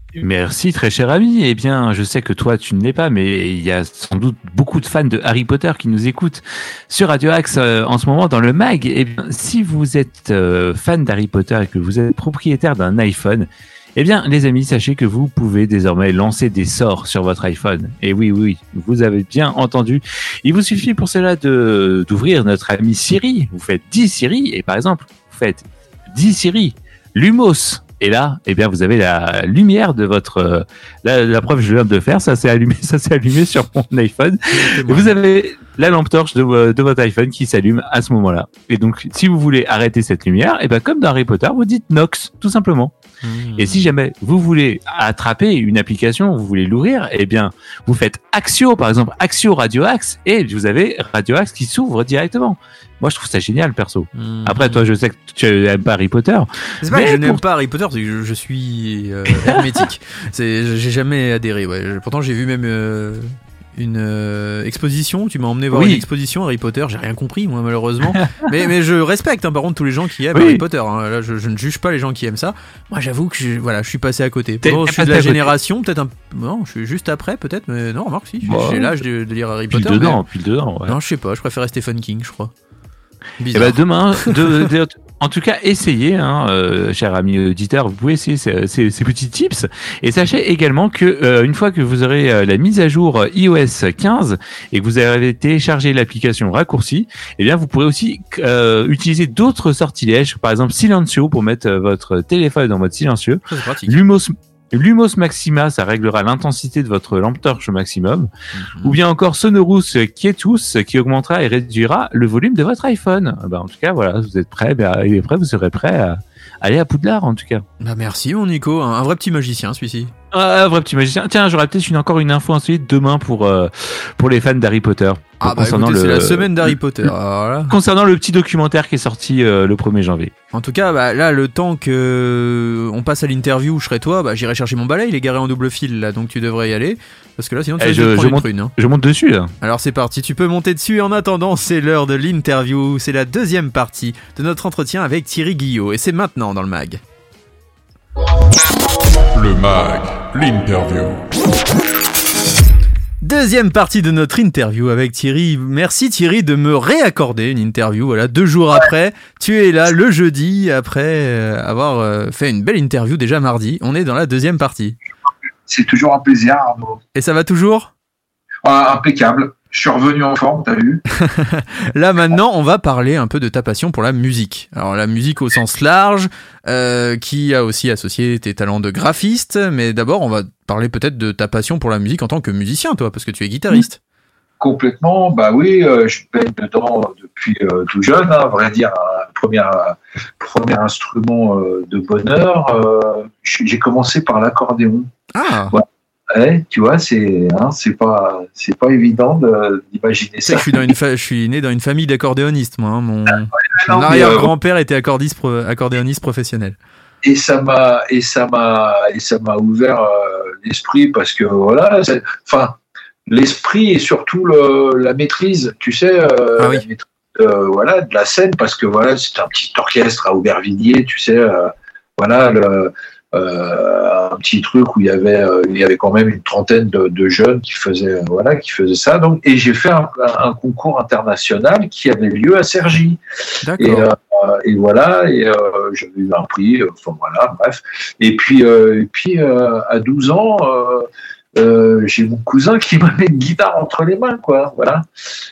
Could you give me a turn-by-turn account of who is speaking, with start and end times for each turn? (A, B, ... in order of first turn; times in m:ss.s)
0:00.2-0:42.9 A
0:34.5-0:35.1 B
0:43.2-0:43.9 B
0:43.6-0:57.4 A
0:54.1-0:54.8 B
0:56.8-1:20.2 B
1:05.7-1:06.0 A
1:10.3-1:10.6 A
1:14.6-1:15.5 A
1:18.4-1:19.0 A
1:19.7-1:21.0 A
1:20.8-1:22.5 B
1:23.4-1:24.6 B
1:23.5-1:48.3 A
1:43.5-1:44.0 B
1:48.5-1:49.0 B
1:48.8-1:57.6 A
1:57.8-2:00.1 B
2:00.3-2:06.7 A
2:05.4-2:07.7 B
2:07.7-2:10.3 A
2:10.5-2:18.7 B
2:17.8-2:19.5 A
2:19.6-2:27.0 B
2:29.3-2:31.2 C
2:33.2-2:45.0 B
2:45.7-2:47.0 D
2:47.1-2:47.9 B
2:48.6-2:51.0 D
2:51.2-3:04.0 B
3:04.6-3:15.1 D
3:15.3-3:15.7 B
3:15.7-3:20.8 D
3:20.4-3:26.8 B
3:23.7-3:24.5 D
3:27.2-3:32.8 D
3:33.3-3:53.2 D
3:36.6-3:36.8 B
3:53.6-3:54.1 B
3:53.8-4:05.0 D